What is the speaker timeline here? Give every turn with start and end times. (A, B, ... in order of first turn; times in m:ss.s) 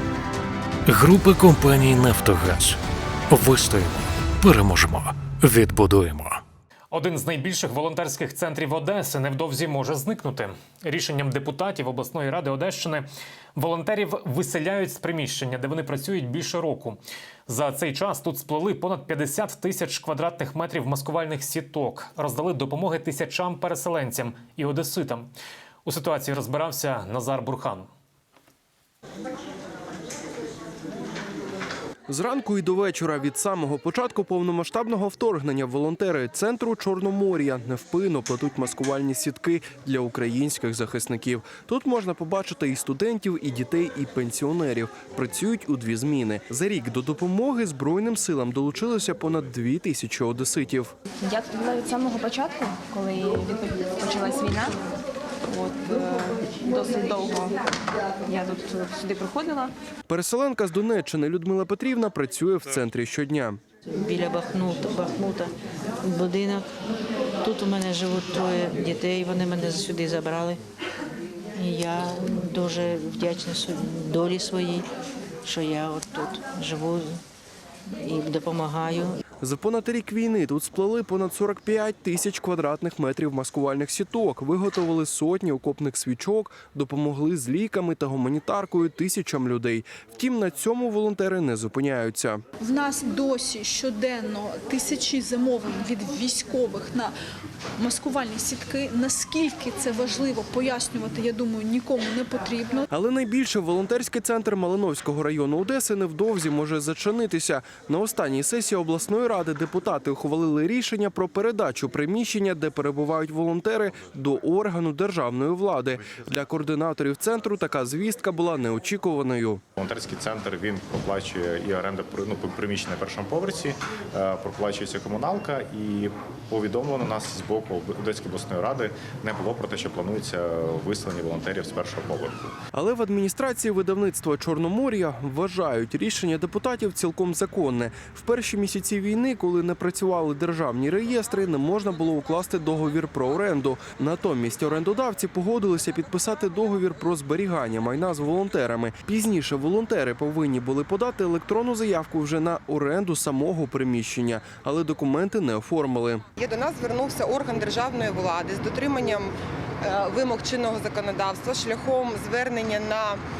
0:00.8-0:06.4 A
0:06.9-0:25.3 B
0:25.8-0:27.9 B
0:32.1-0:50.9 C
0:51.2-0:54.8 D
0:55.4-0:57.6 D
0:58.2-0:59.7 D
1:00.1-1:03.6 C
1:03.9-1:06.7 E
1:07.4-1:10.6 E
1:11.6-1:14.8 E
1:15.4-1:17.2 E
1:18.0-1:19.2 E
1:19.4-1:32.4 C
1:32.6-1:37.1 F
1:37.8-1:42.8 F
1:42.9-1:59.6 C
1:59.8-2:12.5 G
2:12.7-2:36.2 C
2:36.4-2:43.2 H